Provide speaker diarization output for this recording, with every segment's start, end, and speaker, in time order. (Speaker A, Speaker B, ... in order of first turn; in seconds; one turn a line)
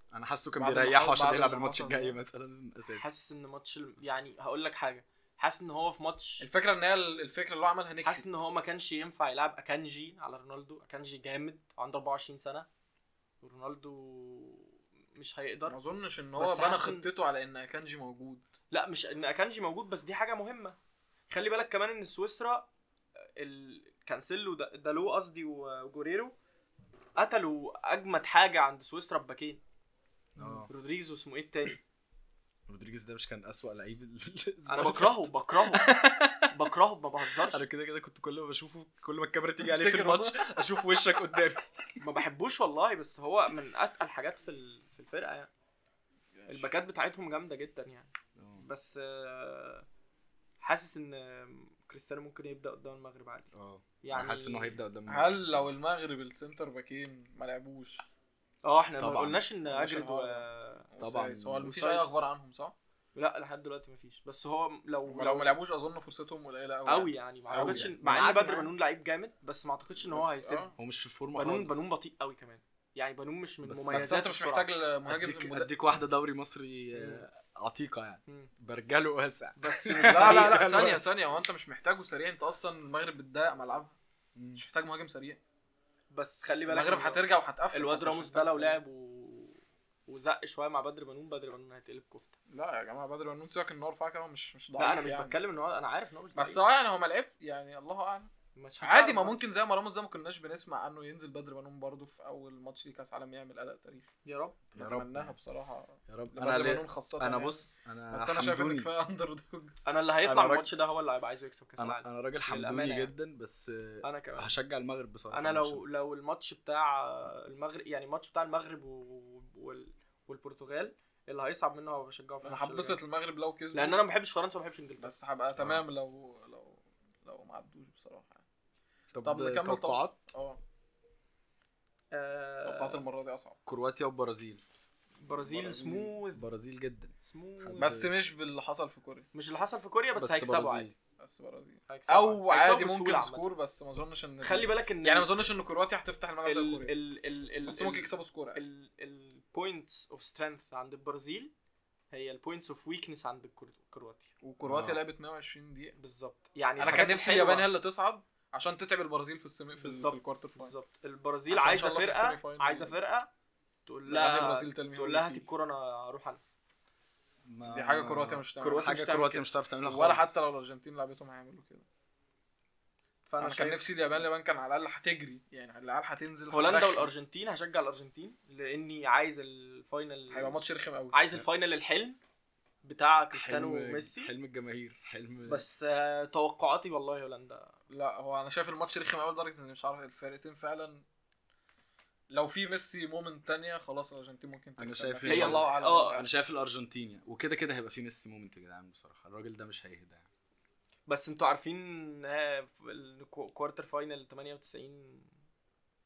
Speaker A: 0.1-3.1
Speaker B: 0.6-2.2
Speaker C: 2.9-6.5
Speaker B: 6.4-8.4
Speaker C: 8.0-12.7
Speaker C: 13.4-15.8
Speaker B: 15.7-18.5
Speaker C: 16.4-17.1
Speaker C: 18.7-20.8
Speaker C: 21.3-22.7
Speaker C: 23.4-26.4
Speaker C: 27.2-29.6
Speaker A: 30.4-30.7
Speaker C: 30.7-31.8
Speaker A: 32.7-36.5
Speaker C: 34.7-36.0
Speaker C: 36.5-37.7
Speaker A: 37.3-42.0
Speaker B: 39.6-40.7
Speaker C: 42.0-45.5
Speaker B: 46.4-46.7
Speaker C: 46.5-49.9
Speaker A: 48.4-48.6
Speaker C: 50.6-53.5
Speaker A: 53.5-55.7
Speaker C: 54.0-54.8
Speaker B: 55.1-58.0
Speaker C: 58.6-60.9
Speaker A: 59.0-59.4
Speaker B: 59.7-62.8
Speaker A: 61.0-61.8
Speaker C: 61.7-62.2
Speaker C: 63.1-65.6
Speaker B: 65.1-68.7
Speaker C: 66.9-70.8
Speaker A: 67.5-68.6
Speaker B: 70.1-70.8
Speaker A: 70.8-71.8
Speaker C: 71.3-74.7
Speaker A: 73.6-74.1
Speaker B: 73.9-75.7
Speaker A: 75.1-81.1
Speaker C: 76.9-77.2
Speaker C: 79.6-80.8
Speaker B: 80.0-84.0
Speaker A: 84.4-84.6
Speaker B: 84.6-85.4
Speaker C: 86.1-92.3
Speaker B: 86.7-88.8
Speaker B: 92.5-95.4
Speaker C: 94.8-96.6
Speaker B: 96.3-98.3
Speaker C: 98.6-99.4
Speaker B: 98.8-104.1
Speaker C: 104.2-104.6
Speaker B: 104.7-109.9
Speaker A: 104.8-105.3
Speaker A: 106.1-108.9
Speaker C: 109.9-113.1
Speaker A: 110.2-110.7
Speaker A: 111.8-115.8
Speaker C: 114.0-114.5
Speaker C: 115.3-123.0
Speaker B: 122.4-124.0
Speaker C: 123.7-125.1
Speaker B: 125.0-128.4
Speaker A: 125.6-125.8
Speaker A: 129.1-130.2
Speaker B: 129.2-130.6
Speaker C: 132.1-133.0
Speaker B: 132.7-133.6
Speaker A: 133.7-134.6
Speaker C: 135.2-136.4
Speaker A: 135.3-138.1
Speaker C: 137.2-138.0
Speaker B: 137.8-139.3
Speaker C: 139.3-140.9
Speaker A: 140.2-140.9
Speaker B: 141.2-147.0
Speaker C: 141.9-143.5
Speaker C: 144.4-145.3
Speaker C: 146.4-151.5
Speaker B: 147.7-148.6
Speaker C: 152.1-154.3
Speaker B: 154.4-156.0
Speaker A: 154.6-155.0
Speaker C: 156.0-157.7
Speaker A: 156.8-157.0
Speaker B: 156.8-160.7
Speaker C: 159.8-163.3
Speaker B: 161.5-163.0
Speaker C: 163.9-166.4
Speaker B: 164.1-165.5
Speaker A: 167.4-170.4
Speaker B: 167.7-169.2
Speaker C: 168.6-169.4
Speaker B: 169.8-171.8
Speaker C: 173.3-174.0
Speaker B: 173.4-177.1
Speaker C: 176.5-180.6
Speaker B: 180.3-181.2
Speaker C: 181.1-182.2
Speaker C: 182.8-184.3
Speaker A: 183.3-185.7
Speaker C: 185.5-187.7
Speaker B: 187.9-191.1
Speaker B: 192.3-196.3
Speaker A: 194.8-200.3
Speaker C: 195.2-196.2
Speaker C: 201.1-205.3